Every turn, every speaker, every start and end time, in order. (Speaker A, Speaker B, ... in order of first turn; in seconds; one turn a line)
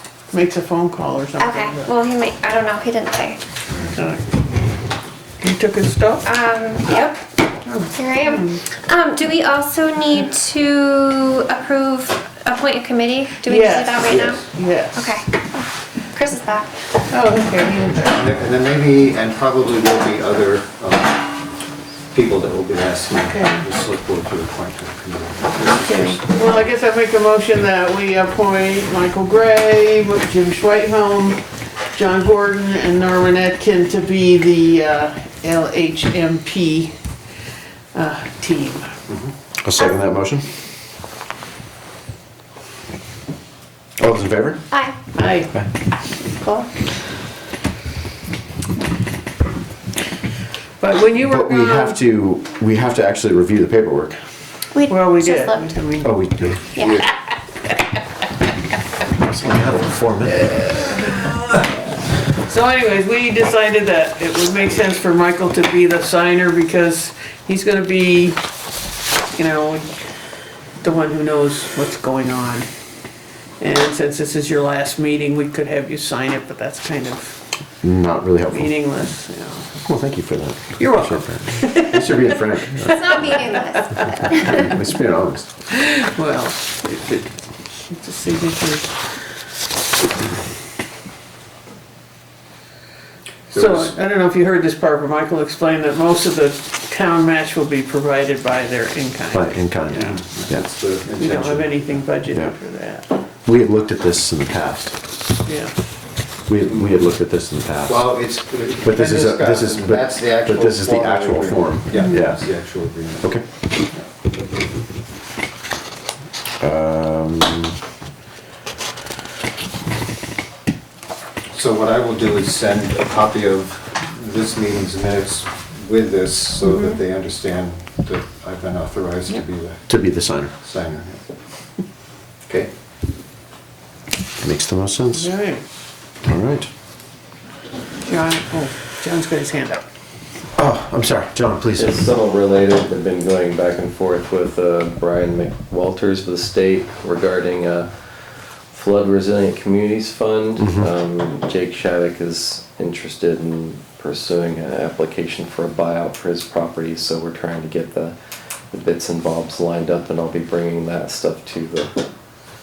Speaker A: 0.3-1.9
Speaker B: 1.4-3.4
Speaker A: 3.9-4.2
Speaker A: 5.4-6.3
Speaker B: 6.2-7.2
Speaker A: 7.7-8.6
Speaker B: 7.8-16.9
Speaker A: 13.4-15.2
Speaker A: 17.1-18.2
Speaker C: 18.0-21.3
Speaker C: 22.1-26.2
Speaker A: 23.1-23.6
Speaker A: 25.6-31.4
Speaker A: 31.9-37.0
Speaker A: 37.9-38.9
Speaker D: 39.6-40.5
Speaker D: 44.0-44.6
Speaker B: 44.7-45.0
Speaker A: 45.1-45.7
Speaker B: 46.3-46.6
Speaker A: 50.8-52.0
Speaker D: 51.2-54.2
Speaker B: 54.7-55.8
Speaker A: 54.9-56.1
Speaker D: 56.0-57.0
Speaker B: 56.8-57.0
Speaker D: 59.1-60.6
Speaker A: 61.1-61.5
Speaker A: 62.4-68.4
Speaker A: 69.3-69.9
Speaker A: 70.8-72.7
Speaker A: 73.6-77.4
Speaker D: 77.8-78.7
Speaker A: 78.5-79.7
Speaker D: 79.8-83.2
Speaker A: 80.8-82.4
Speaker B: 82.8-84.7
Speaker A: 83.7-84.1
Speaker D: 84.3-85.5
Speaker A: 85.7-87.3
Speaker A: 87.9-88.9
Speaker C: 93.5-93.9
Speaker A: 93.5-100.2
Speaker D: 99.3-100.7
Speaker C: 100.1-102.2
Speaker A: 101.2-103.1
Speaker D: 103.4-105.0
Speaker A: 105.4-105.7
Speaker D: 106.5-108.1
Speaker C: 107.8-113.4
Speaker D: 108.8-112.5
Speaker A: 111.9-112.2
Speaker D: 116.6-117.8
Speaker C: 121.5-130.0
Speaker A: 126.6-127.0
Speaker D: 129.9-130.5
Speaker C: 130.6-131.2
Speaker D: 134.4-135.3
Speaker A: 135.1-135.6
Speaker D: 136.2-136.7
Speaker A: 138.0-139.8
Speaker D: 140.6-142.1
Speaker E: 141.8-162.0
Speaker D: 150.6-150.9